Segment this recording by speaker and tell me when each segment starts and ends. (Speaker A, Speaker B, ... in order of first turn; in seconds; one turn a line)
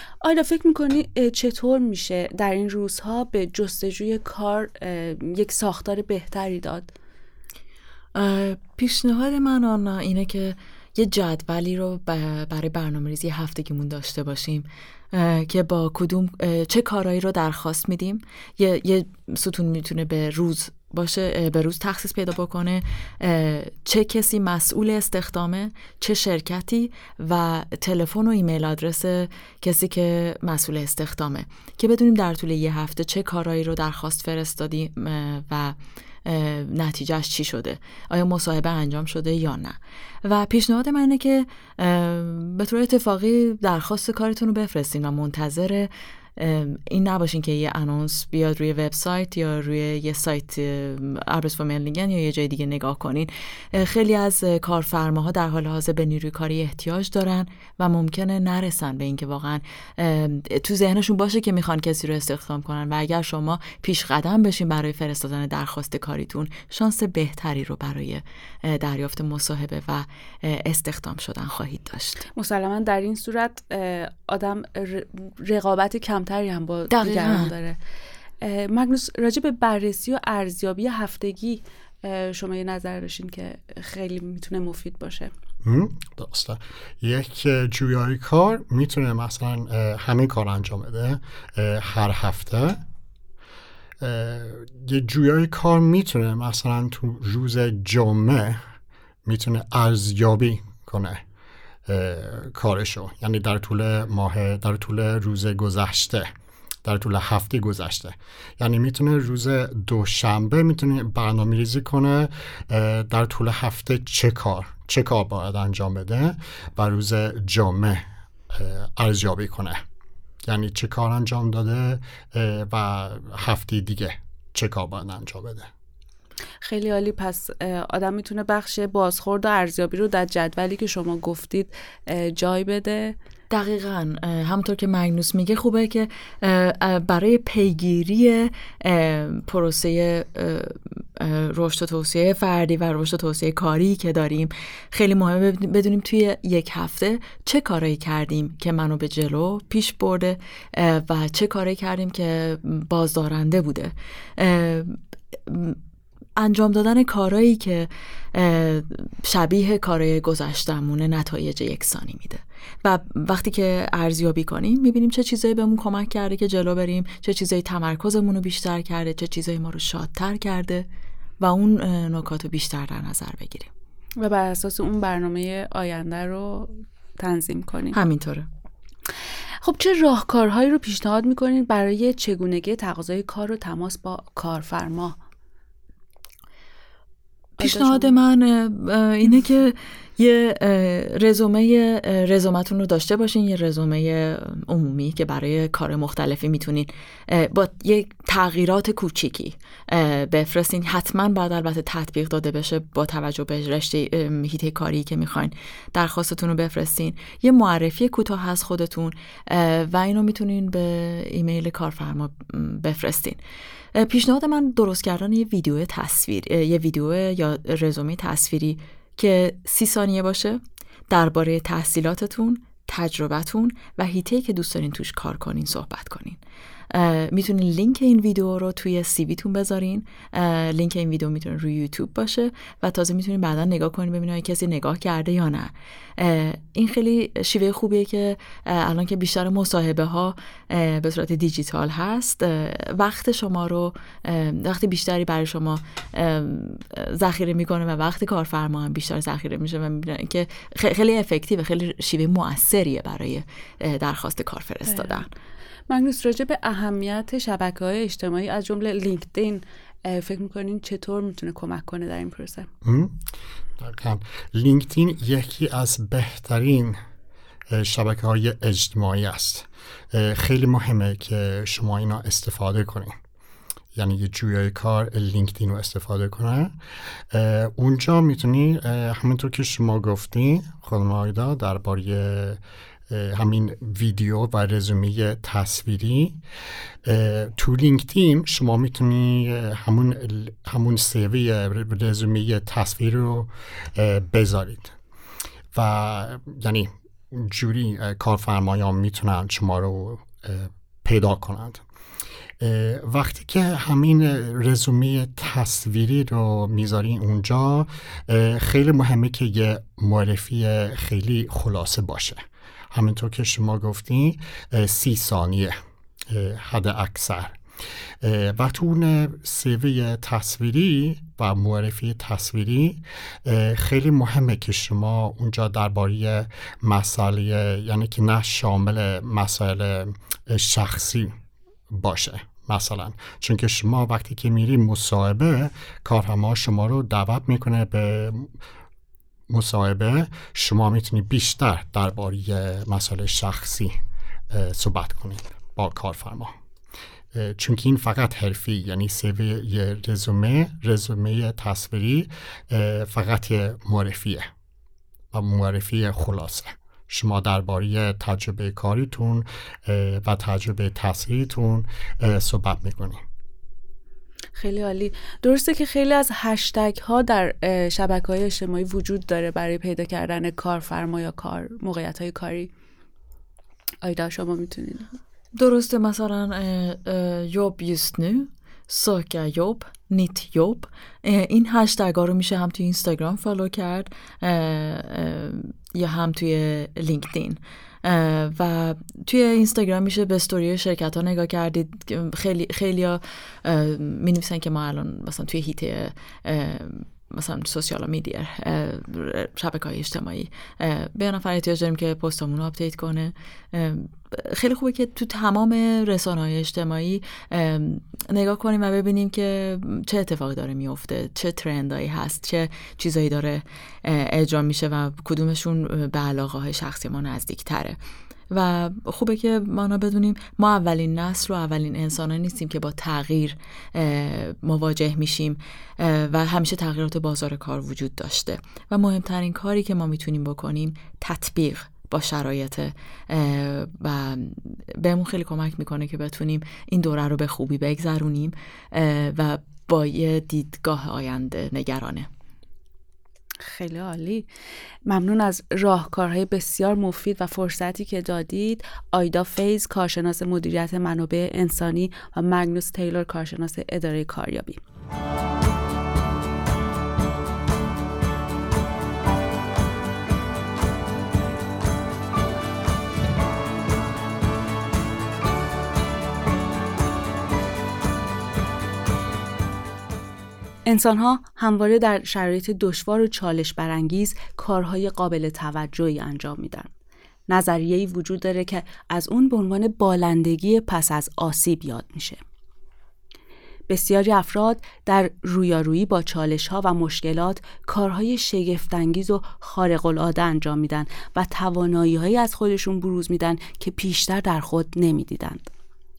Speaker A: 0.2-6.9
Speaker B: 8.1-72.3
Speaker A: 72.4-77.8
Speaker B: 76.9-77.5
Speaker A: 78.4-85.3
Speaker C: 85.6-92.8
Speaker C: 94.0-98.6
Speaker C: 99.3-101.2
Speaker C: 101.9-106.3
Speaker C: 106.8-119.8
Speaker C: 120.5-125.7
Speaker A: 126.6-133.2
Speaker B: 133.5-155.8
Speaker B: 156.4-170.9
Speaker B: 171.4-173.7
Speaker A: 174.2-178.0
Speaker B: 177.9-178.5
Speaker A: 179.6-185.2
Speaker B: 187.6-213.4
Speaker A: 187.6-188.2
Speaker B: 213.9-226.4
Speaker B: 226.9-255.3
Speaker A: 255.9-262.7
Speaker C: 262.8-263.1
Speaker C: 263.8-267.0
Speaker C: 267.7-273.1
Speaker C: 273.9-276.7
Speaker C: 277.3-286.4
Speaker C: 287.1-294.9
Speaker C: 295.7-301.8
Speaker C: 302.6-312.4
Speaker C: 312.9-315.8
Speaker C: 316.3-317.6
Speaker C: 318.2-331.3
Speaker C: 331.9-338.5
Speaker C: 339.5-343.9
Speaker C: 344.5-346.5
Speaker C: 347.3-354.5
Speaker C: 355.3-363.2
Speaker A: 364.6-372.7
Speaker A: 374.0-375.1
Speaker B: 375.6-418.0
Speaker B: 418.5-442.3
Speaker A: 443.6-444.5
Speaker A: 445.1-454.8
Speaker A: 470.9-476.9
Speaker A: 477.5-482.4
Speaker A: 483.9-495.7